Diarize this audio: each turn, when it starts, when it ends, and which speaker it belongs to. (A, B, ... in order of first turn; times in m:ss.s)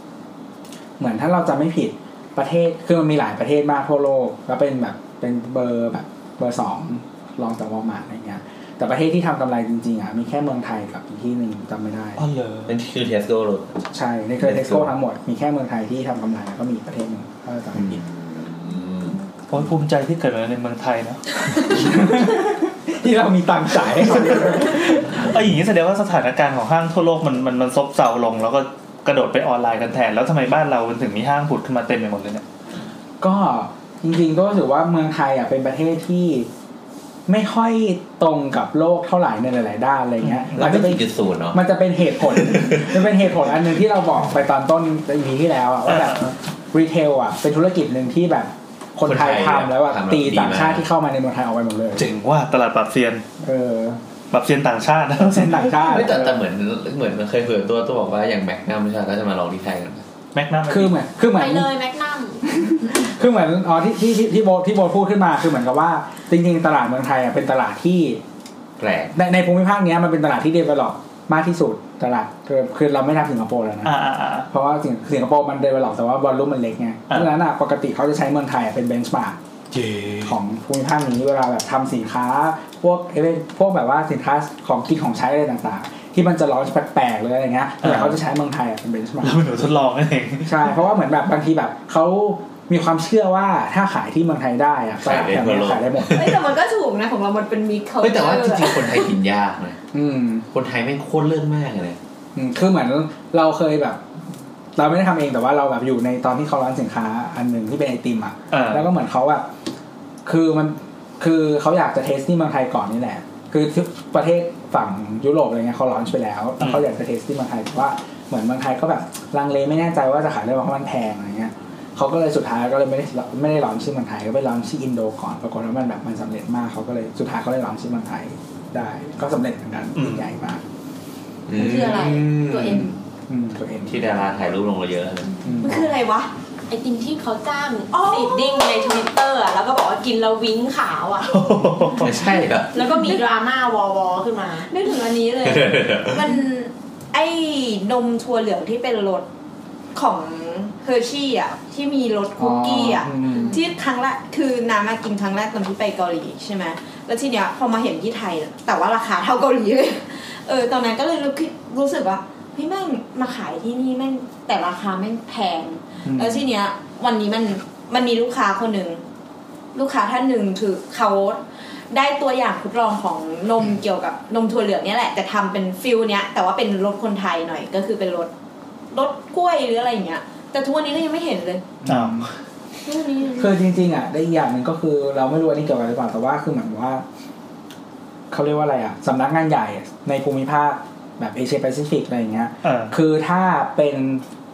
0:01.0-0:12.2 A
0:12.2-0:12.8 B
0:12.7-0:13.8 C
0:13.9-0:18.0 A
0:14.4-0:14.9 C
0:17.8-0:19.2 C
0:19.5-0:21.4 B
0:21.6-0:25.4 A
0:24.8-0:32.4 B
0:33.2-0:36.5 A
0:37.3-0:52.1 A
0:40.2-0:40.7 B
0:40.6-0:41.6 C
0:42.3-0:43.0 C
0:45.9-0:46.3 B
0:49.0-0:50.8 C
0:52.0-0:53.2 B
0:53.4-0:54.0 A
0:54.3-0:56.4 B
0:55.2-0:56.3 A
0:55.8-1:00.0 C
1:00.3-1:01.0 B
1:00.7-1:01.7 A
1:01.3-1:02.4 D
1:02.5-1:08.2 A
1:08.8-1:09.1 C
1:09.1-1:13.9 A
1:13.8-1:14.5 B
1:14.5-1:19.4 A
1:19.7-1:20.4 B
1:20.2-1:29.5 A
1:27.8-1:28.2 B
1:29.2-1:30.7 B
1:30.4-1:36.2 A
1:35.0-1:36.4 C
1:36.1-1:39.1 E
1:38.0-1:39.8 C
1:39.9-1:40.4 A
1:40.5-1:42.0 C
1:42.4-1:44.0 A
1:44.8-1:49.5 A
1:48.5-1:48.9 B
1:50.2-2:10.6 A
1:56.6-1:56.9 B
2:10.0-2:10.3 B
2:11.5-2:13.0 C
2:11.6-2:12.8 E
2:11.6-2:14.2 A
2:13.9-2:15.5 C
2:15.4-2:15.9 A
2:15.5-2:16.3 E
2:16.7-2:21.3 D
2:17.9-2:19.0 E
2:21.3-2:22.2 B
2:22.0-2:22.8 C
2:22.7-2:24.7 D
2:22.8-2:23.2 E
2:24.6-2:29.2 E
2:25.4-2:26.3 C
2:29.9-2:49.0 E
2:32.4-2:33.6 A
2:33.3-2:33.6 D
2:46.1-2:46.4 A
2:49.7-2:58.3 E
2:58.9-3:01.7 E
3:01.8-3:02.3 A
3:01.9-3:02.2 B
3:02.8-3:03.5 E
3:03.4-3:07.0 A
3:08.3-3:14.2 A
3:12.6-3:12.9 B